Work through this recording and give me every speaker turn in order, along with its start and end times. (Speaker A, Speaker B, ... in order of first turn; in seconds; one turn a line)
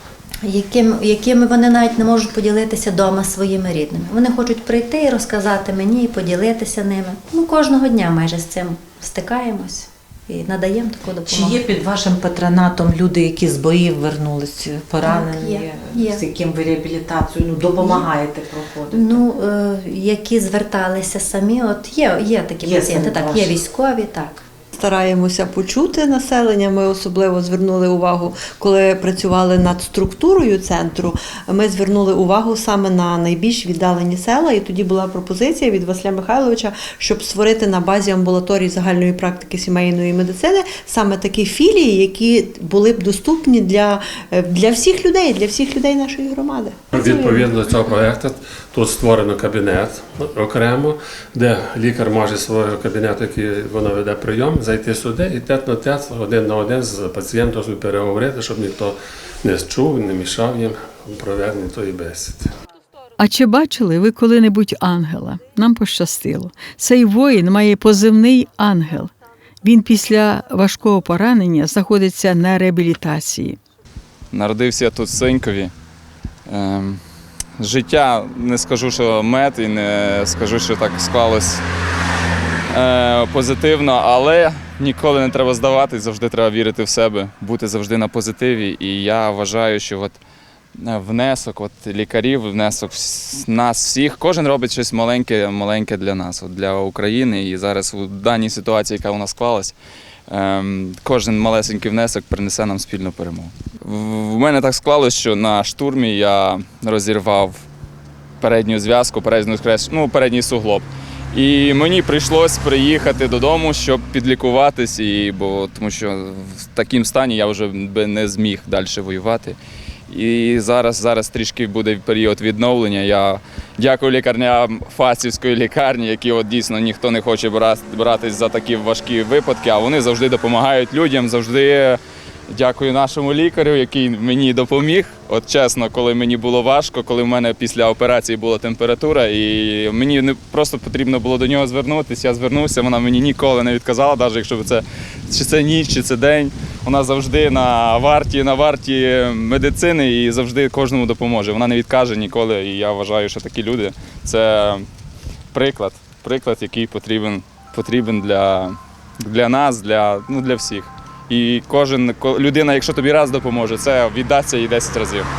Speaker A: 0.4-11.6
Speaker B: 11.3-19.2
Speaker A: 15.0-16.2
Speaker A: 17.8-18.1
Speaker A: 18.9-24.4
Speaker B: 22.6-23.6
Speaker C: 24.8-47.5
Speaker D: 46.9-62.5
Speaker E: 63.2-69.1
Speaker E: 69.6-73.6
Speaker F: 74.3-75.7
Speaker F: 76.5-77.0
Speaker F: 77.6-81.6
Speaker F: 82.7-90.2
Speaker F: 90.8-99.7
Speaker F: 100.3-107.6
Speaker F: 108.4-119.6
Speaker F: 120.1-132.0
Speaker F: 132.5-154.9
Speaker F: 155.5-165.3